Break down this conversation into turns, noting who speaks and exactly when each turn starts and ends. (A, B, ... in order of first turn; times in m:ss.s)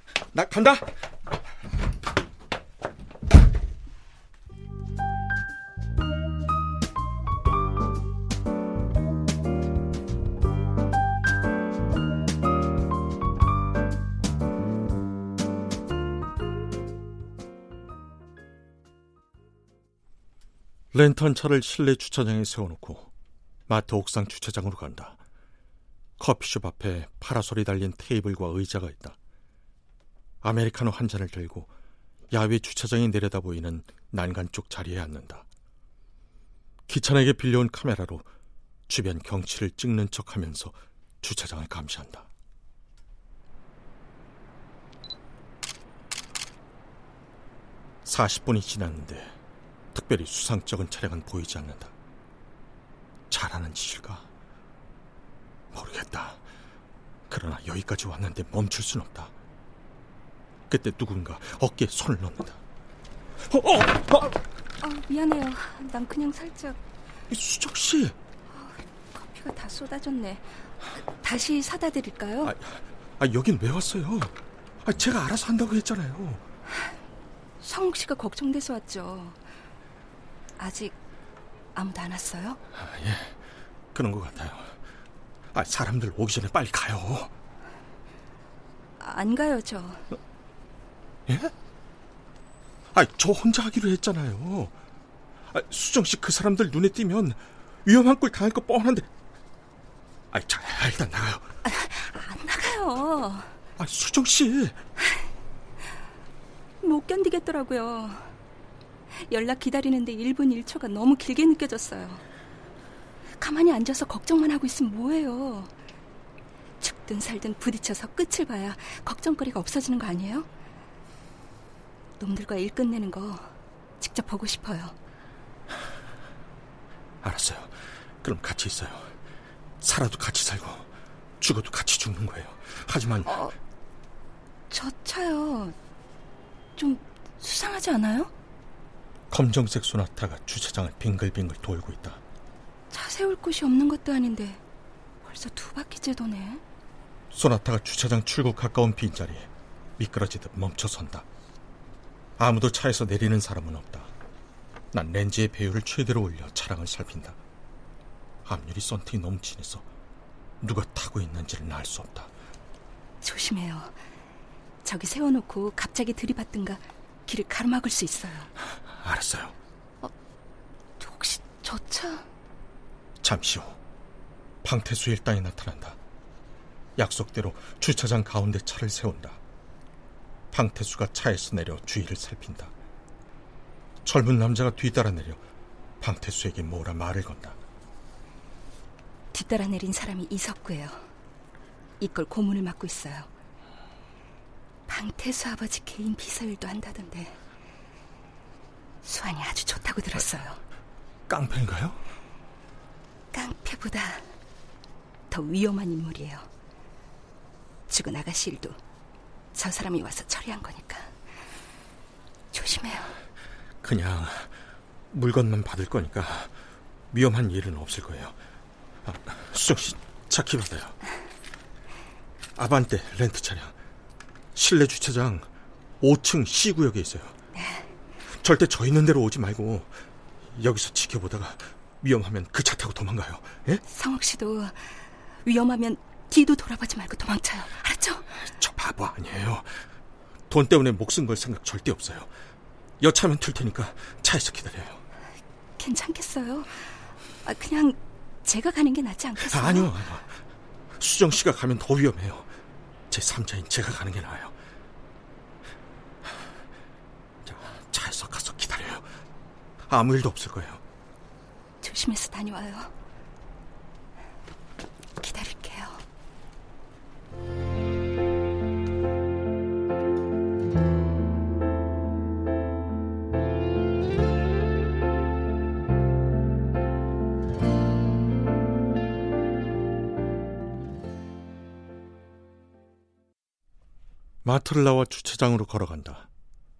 0:00.3-0:00.8 A
0:20.9-0:23.1 A
0:23.7-0:25.2 A
0:26.2-0:29.2 A
0:30.4-0:31.7 A
0:32.3-0:35.4 A
0:36.9-0:38.2 A
0:38.9-0:42.3 A
0:48.0-0:49.4 A
0:49.9-0:51.9 A
0:53.3-0:54.3 A
0:55.7-0:56.4 A
0:57.3-0:59.3 A
1:00.7-1:02.6 A
1:03.5-1:04.3 A
1:04.8-1:06.8 B
1:07.3-1:08.1 A
1:08.5-1:12.5 B
1:12.4-1:16.4 A
1:17.6-1:19.4 B
1:20.6-1:20.9 B
1:21.7-1:22.6 B
1:22.8-1:23.4 A
1:23.9-1:24.8 A
1:25.5-1:27.3 A
1:29.0-1:30.0 B
1:31.3-1:31.5 A
1:32.9-1:34.7 A
1:35.5-1:39.1 A
1:40.3-1:41.4 A
1:41.6-1:43.5 B
1:43.8-1:44.8 A
1:46.8-1:48.3 B
1:49.1-1:52.2 B
1:53.4-1:55.7 B
1:56.8-2:00.5 B
2:02.2-2:04.9 B
2:07.2-2:09.1 A
2:09.8-2:10.9 A
2:11.4-2:13.4 A
2:13.2-2:13.5 B
2:14.7-2:15.7 B
2:16.8-2:18.3 B
2:19.3-2:22.2 A
2:22.9-2:24.6 B
2:25.2-2:26.6 B
2:27.3-2:31.2 A
2:32.4-2:34.1 A
2:34.9-2:37.4 A
2:38.4-2:39.8 A
2:40.6-2:42.3 A
2:43.2-2:44.0 B
2:44.8-2:48.5 B
2:49.0-2:49.5 A
2:51.0-2:52.2 B
2:53.2-2:53.8 A
2:54.6-2:56.0 A
2:57.0-2:59.4 A
3:00.5-3:02.7 A
3:04.0-3:05.4 A
3:06.0-3:07.6 A
3:09.3-3:11.0 B
3:12.0-3:13.3 B
3:14.9-3:17.4 B
3:19.0-3:20.6 B
3:21.3-3:22.0 A
3:23.3-3:24.3 B
3:25.3-3:26.4 B
3:27.9-3:28.8 B
3:29.5-3:31.1 B
3:32.5-3:33.2 B
3:33.8-3:34.5 A
3:35.1-3:36.5 A
3:37.1-3:38.3 A
3:39.0-3:41.0 A
3:42.6-3:43.7 A
3:44.5-3:45.5 A
3:46.0-3:47.3 A
3:47.5-3:47.9 B
3:48.4-3:49.9 A
3:50.5-3:53.8 A
3:53.9-3:58.3 B
3:58.5-3:59.8 A
4:00.5-4:02.3 A
4:03.0-4:05.0 A
4:05.8-4:09.9 B
4:09.4-4:10.4 A
4:11.0-4:12.5 A
4:13.1-4:14.5 A
4:17.4-4:19.0 A
4:19.9-4:20.8 A
4:21.8-4:22.9 B
4:25.2-4:26.0 B
4:44.4-4:46.3 A